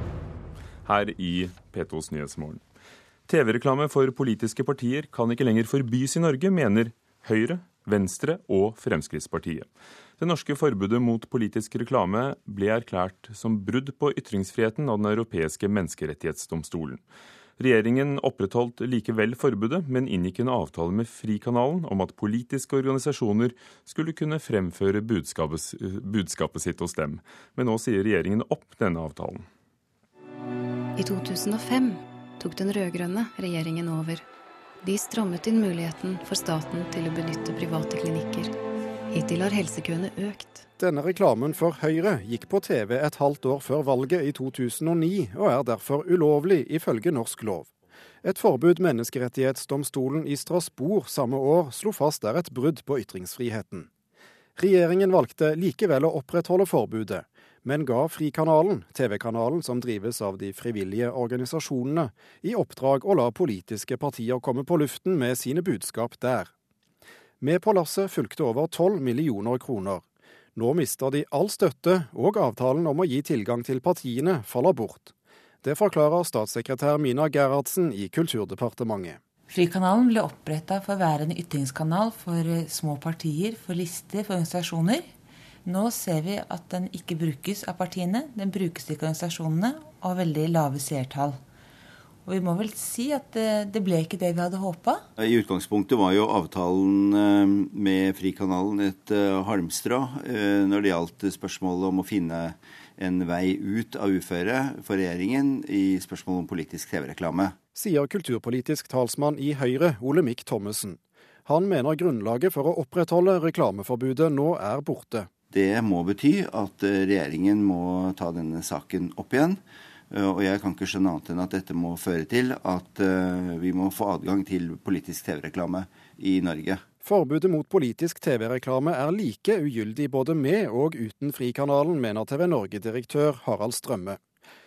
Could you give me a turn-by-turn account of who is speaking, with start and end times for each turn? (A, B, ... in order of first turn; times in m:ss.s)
0:00.8-0:02.6 A
0:03.3-0:09.7 A
0:10.2-0:17.0 A
0:17.6-0:29.4 A
0:31.0-0:34.2 B
0:34.8-0:38.5 B
0:39.1-0:40.6 B
0:40.8-0:47.7 C
0:48.2-0:53.9 C
0:54.6-1:06.5 C
1:07.4-1:10.0 C
1:10.5-1:19.2 C
1:19.5-1:25.1 D
1:25.6-1:31.4 D
1:32.2-1:35.0 D
1:35.2-1:47.6 E
1:47.7-1:55.3 C
1:55.5-1:59.6 E
2:00.1-2:06.8 E
2:07.0-2:14.2 C